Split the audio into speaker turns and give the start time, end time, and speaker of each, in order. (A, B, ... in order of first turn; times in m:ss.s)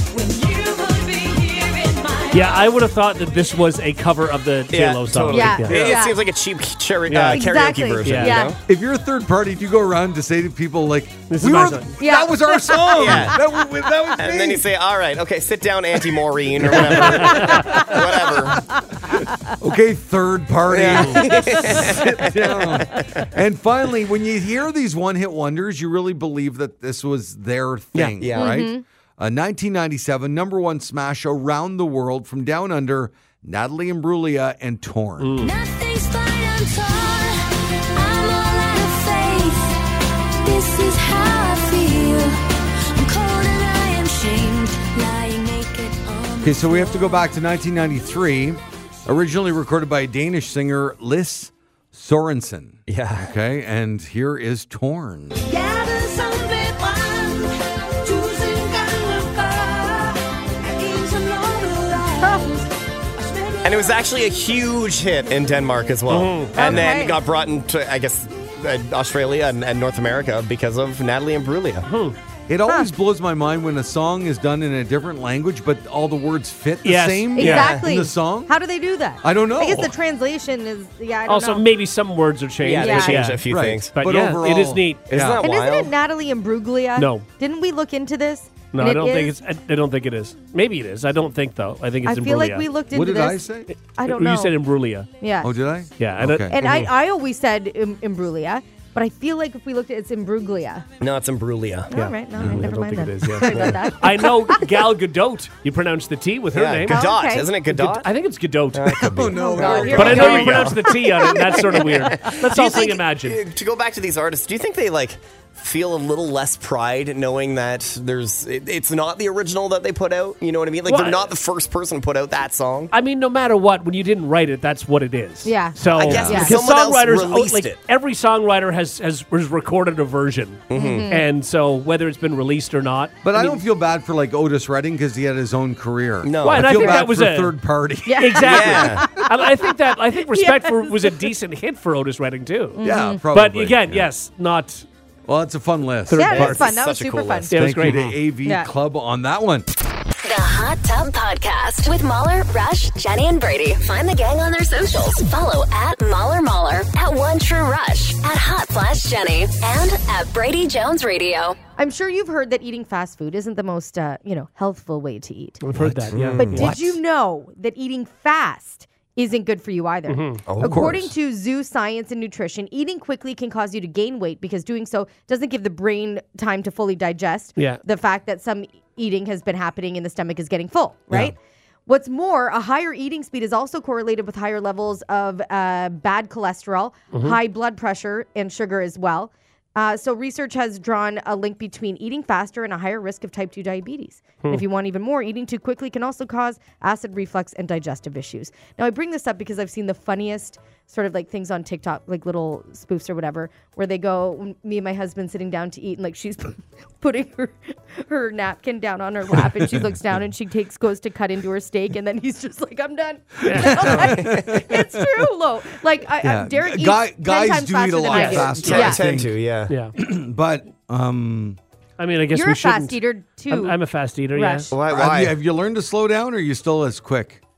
0:00.1-0:02.7 A
0:02.3-0:06.0 B
0:04.7-0:08.6 C
0:05.3-0:06.2 D
0:07.1-0:07.5 B
0:07.3-0:08.6 D
0:08.0-0:08.4 B
0:08.7-0:14.7 E
0:11.3-0:11.9 B
0:12.0-0:13.3 D
0:12.9-0:13.4 C
0:14.2-0:18.7 C
0:16.6-0:18.0 E
0:17.0-0:17.7 B
0:17.5-0:18.0 D
0:18.8-0:19.5 D
0:19.0-0:35.3 E
0:20.7-0:23.2 C
0:27.9-0:28.7 C
0:28.3-0:28.8 D
0:35.2-0:35.5 B
0:35.4-0:37.4 A
0:38.0-0:39.8 A
0:40.4-0:42.4 A
0:43.0-0:47.2 A
0:46.4-0:55.4 E
0:52.9-0:53.3 C
0:55.4-1:04.1 A
1:02.2-1:02.6 D
1:03.6-1:11.9 C
1:06.1-1:06.8 B
1:06.6-1:07.2 D
1:11.9-1:12.2 B
1:12.5-1:18.5 E
1:16.8-1:17.8 B
1:17.4-1:21.6 D
1:19.2-1:19.9 E
1:21.3-1:25.1 B
1:22.6-1:23.9 C
1:22.8-1:23.3 D
1:23.5-1:25.4 E
1:25.1-1:25.9 C
1:25.4-1:29.4 D
1:27.0-1:27.3 B
1:28.7-1:32.7 B
1:32.0-1:34.6 D
1:32.9-1:33.7 E
1:34.0-1:35.1 B
1:35.2-1:35.5 D
1:35.4-1:36.6 E
1:36.0-1:36.9 B
1:36.5-1:40.9 D
1:41.0-1:41.9 C
1:41.9-1:44.7 D
1:41.9-1:49.3 B
1:42.4-1:42.7 E
1:46.5-1:48.1 C
1:46.9-1:47.5 D
1:48.7-2:02.9 C
1:49.0-1:50.7 E
1:49.3-1:52.3 D
1:49.9-1:53.4 B
2:00.9-2:01.3 B
2:02.9-2:13.6 B
2:05.4-2:06.6 D
2:06.0-2:07.8 C
2:06.0-2:06.6 E
2:10.7-2:11.1 C
2:10.7-2:11.3 D
2:13.2-2:19.1 E
2:16.2-2:17.0 C
2:16.4-2:17.6 B
2:18.1-2:19.7 D
2:18.2-2:22.8 B
2:18.4-2:19.1 C
2:20.3-2:21.3 D
2:22.8-2:23.2 D
2:22.8-2:24.1 E
2:23.3-2:24.9 B
2:25.3-2:26.5 E
2:26.1-2:26.7 B
2:26.2-2:27.6 D
2:26.3-2:28.1 C
2:27.5-2:28.2 B
2:27.5-2:29.7 E
2:30.2-2:41.6 F
2:41.8-2:45.6 D
2:45.6-2:46.7 B
2:45.7-2:47.0 E
2:46.1-2:46.7 C
2:46.4-3:01.3 D
2:50.1-2:50.4 B
2:50.5-2:51.0 C
2:50.6-2:51.1 E
2:57.6-2:57.8 B
3:01.9-3:39.0 D
3:07.1-3:07.4 B
3:29.4-3:29.9 E
3:33.4-3:35.3 E
3:33.4-3:34.2 B
3:36.2-3:39.4 E
3:38.1-3:38.8 B
3:38.5-3:39.7 C
3:39.7-3:40.0 B
3:40.0-3:41.6 E
3:42.0-3:44.7 B
3:42.3-3:43.8 D
3:44.3-3:44.7 D
3:44.7-3:45.4 C
3:44.9-3:47.4 E